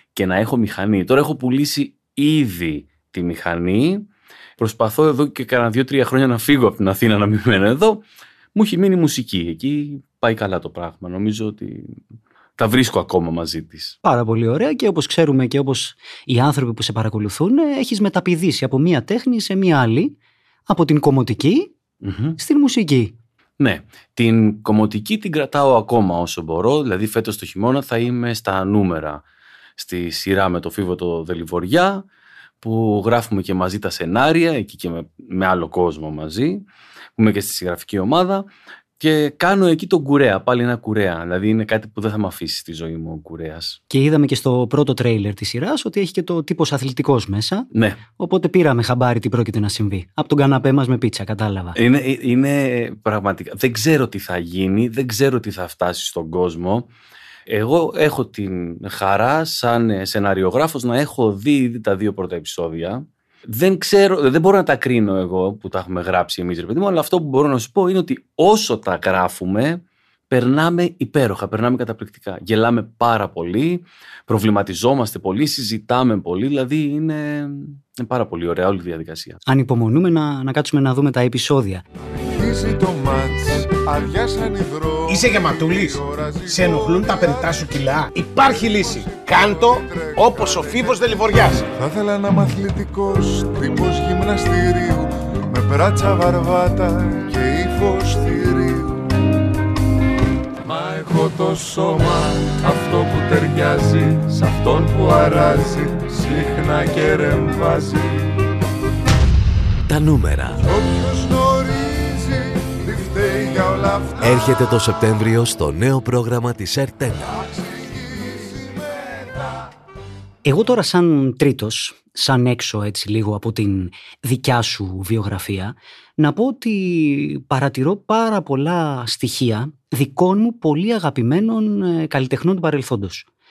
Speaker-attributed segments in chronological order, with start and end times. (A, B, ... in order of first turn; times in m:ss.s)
0:00.2-0:08.0 A
0:08.6-0:12.0 A
0:12.6-0:14.0 A
0:14.0-0:20.2 B
0:20.7-0:21.7 B
0:22.0-0:22.4 A
0:22.4-0:23.1 B
0:23.6-0:29.2 A
0:29.8-0:32.0 A
0:32.6-0:36.6 A
0:37.2-0:38.5 A
0:39.0-0:43.8 A
0:43.9-0:51.8 B
0:47.7-0:48.0 A
0:51.8-0:56.9 A
0:57.5-1:19.4 A
1:19.5-1:21.8 B
1:22.2-1:27.7 C
1:25.1-1:31.6 D
1:28.3-1:31.2 C
1:31.7-1:39.0 C
1:40.6-1:48.3 C
1:49.9-1:50.6 E
1:50.6-1:54.4 C
1:54.2-1:57.4 E
1:57.5-1:59.4 C
2:00.4-2:13.3 B